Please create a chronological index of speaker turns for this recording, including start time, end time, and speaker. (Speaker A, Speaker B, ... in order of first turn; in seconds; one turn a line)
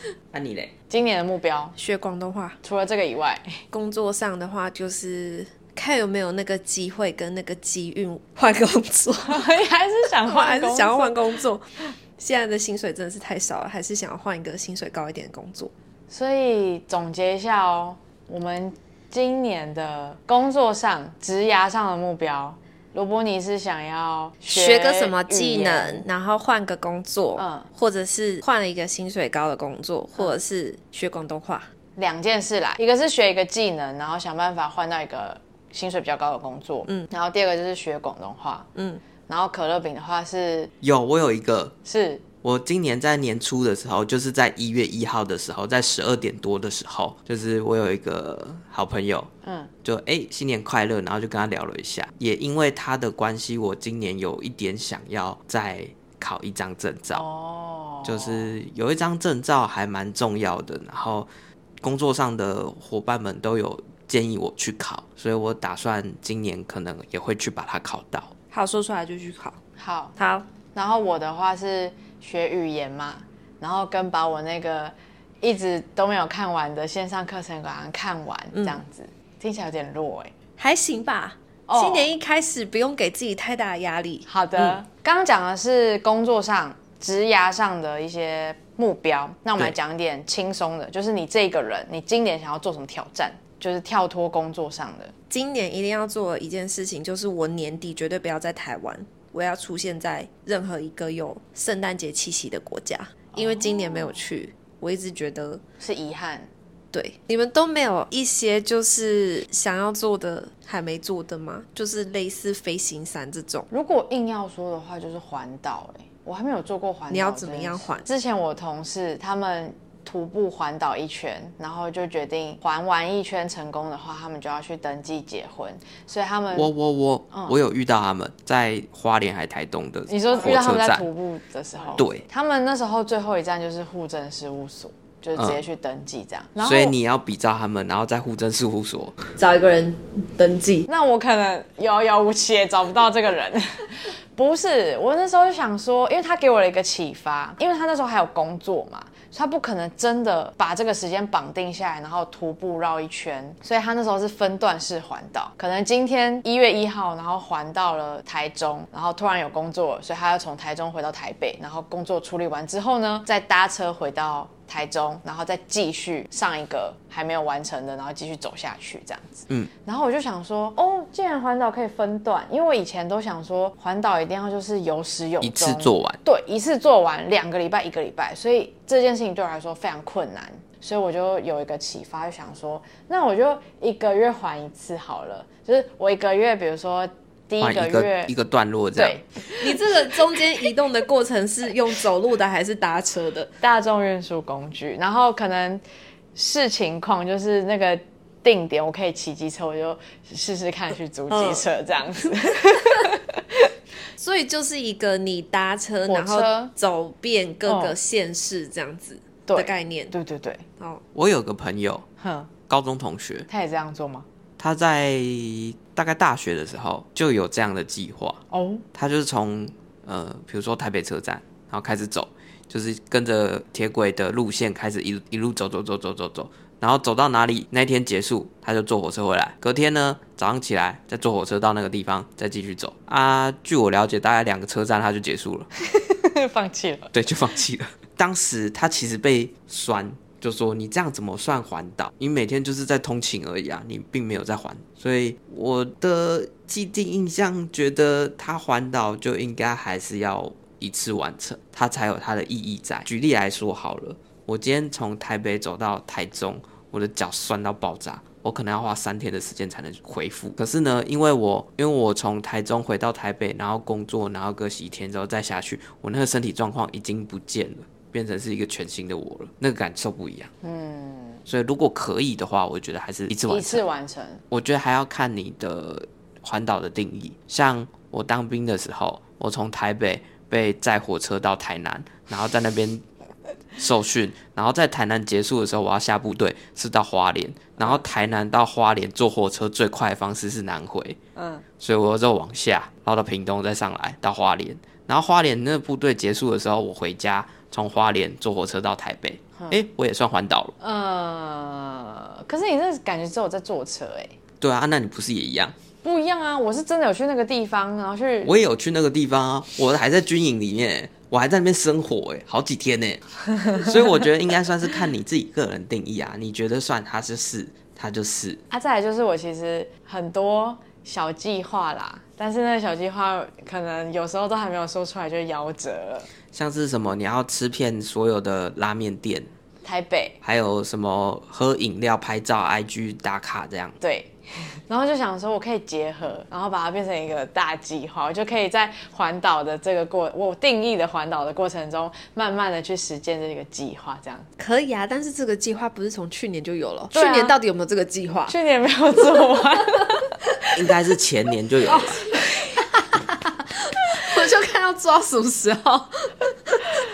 Speaker A: 0.3-0.7
Speaker B: 0.9-1.8
Speaker C: 1.8-2.6
Speaker B: 2.6-3.6
Speaker C: 3.7-9.5
Speaker B: 9.2-11.2
Speaker C: 10.2-15.7
Speaker B: 16.1-26.1
Speaker C: 24.5-31.7
Speaker B: 27.4-27.7
Speaker B: 32.0-38.7
Speaker C: 38.8-39.0
Speaker B: 39.3-40.7
Speaker A: 40.8-41.8
Speaker B: 41.9-42.2
Speaker A: 42.4-49.3
Speaker B: 49.4-49.7
Speaker A: 49.9-57.2
Speaker B: 57.1-58.5
Speaker A: 58.0-61.3
Speaker A: 61.8-68.3
Speaker C: 68.5-69.6
Speaker B: 69.8-70.2
Speaker C: 70.2-70.5
Speaker B: 70.7-80.3
Speaker C: 78.5-78.8
Speaker C: 80.6-84.8
Speaker B: 81.7-82.1
Speaker B: 84.3-95.1
Speaker C: 95.3-105.6
Speaker B: 103.3-104.2
Speaker B: 105.8-106.5
Speaker C: 106.9-113.7
Speaker B: 113.7-126.7
Speaker C: 117.1-118.1
Speaker A: 126.5-131.1
Speaker B: 130.1-136.9
Speaker A: 132.0-132.2
Speaker A: 135.4-135.6
Speaker A: 136.6-139.2
Speaker C: 139.4-140.9
Speaker B: 140.9-188.3
Speaker A: 175.4-176.2
Speaker A: 187.6-189.2
Speaker B: 189.0-189.2
Speaker C: 189.6-193.5
Speaker B: 193.6-195.8
Speaker B: 196.3-203.7
Speaker C: 201.3-201.6
Speaker C: 204.2-210.1
Speaker B: 206.1-206.7
Speaker B: 207.7-208.0
Speaker B: 209.5-210.6
Speaker A: 211.1-212.1
Speaker B: 212.2-212.5
Speaker A: 212.7-213.5
Speaker B: 213.5-214.3
Speaker A: 214.6-218.4
Speaker B: 218.5-218.8
Speaker A: 218.9-235.7
Speaker B: 236.2-237.1
Speaker A: 237.1-270.5
Speaker B: 270.6-271.4
Speaker A: 271.5-273.8
Speaker B: 273.5-274.4
Speaker A: 274.5-283.0
Speaker A: 283.8-291.2
Speaker B: 291.4-291.6
Speaker A: 291.8-300.7
Speaker B: 300.8-304.4
Speaker A: 304.6-305.8
Speaker B: 306.0-308.6
Speaker A: 308.4-318.6
Speaker B: 313.6-313.9
Speaker B: 318.7-326.3
Speaker A: 326.5-329.5
Speaker B: 329.8-330.4
Speaker A: 330.4-334.0
Speaker B: 334.0-334.3
Speaker B: 334.9-344.5
Speaker C: 344.6-348.6
Speaker B: 347.1-347.6
Speaker B: 348.5-350.3
Speaker A: 350.7-352.2
Speaker C: 351.9-356.9